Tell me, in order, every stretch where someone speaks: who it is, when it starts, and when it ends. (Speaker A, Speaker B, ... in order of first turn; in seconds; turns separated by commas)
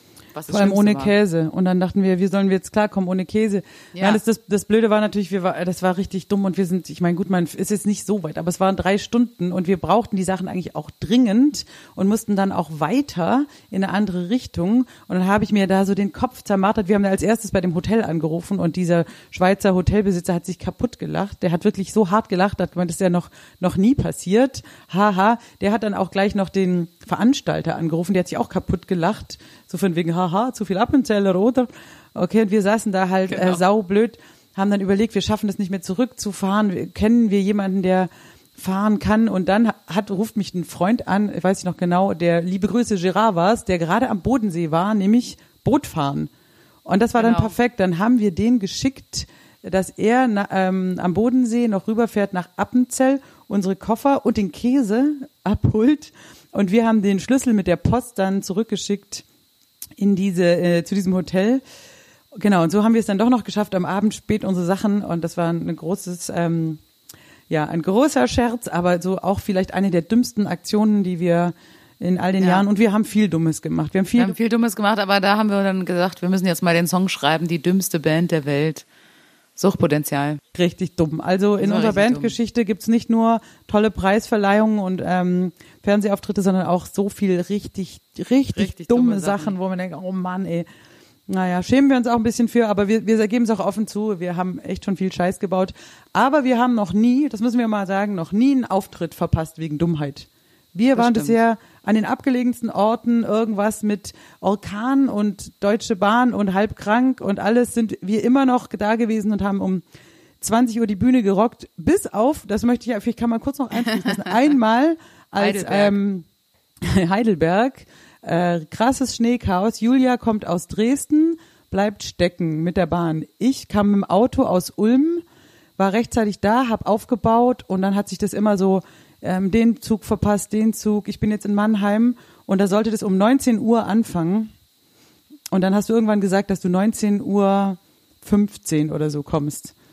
Speaker A: 0.3-1.1, Speaker B: 0.5-46.3, Speaker A: 3.9-4.2, Speaker A: 33.3-33.6, Speaker B: 46.9-59.2, Speaker A: 47.2-47.5, Speaker B: 60.0-61.6, Speaker B: 62.4-66.8, Speaker B: 67.5-74.3, Speaker A: 72.4-72.7, Speaker A: 74.2-78.8, Speaker A: 79.6-80.4, Speaker B: 80.5-90.7, Speaker A: 81.6-82.3, Speaker A: 88.5-89.5, Speaker B: 91.3-109.8, Speaker A: 100.9-101.4, Speaker B: 110.4-116.2, Speaker A: 113.9-114.2, Speaker A: 115.4-116.0, Speaker B: 116.8-125.2, Speaker B: 125.8-134.5, Speaker B: 135.5-139.7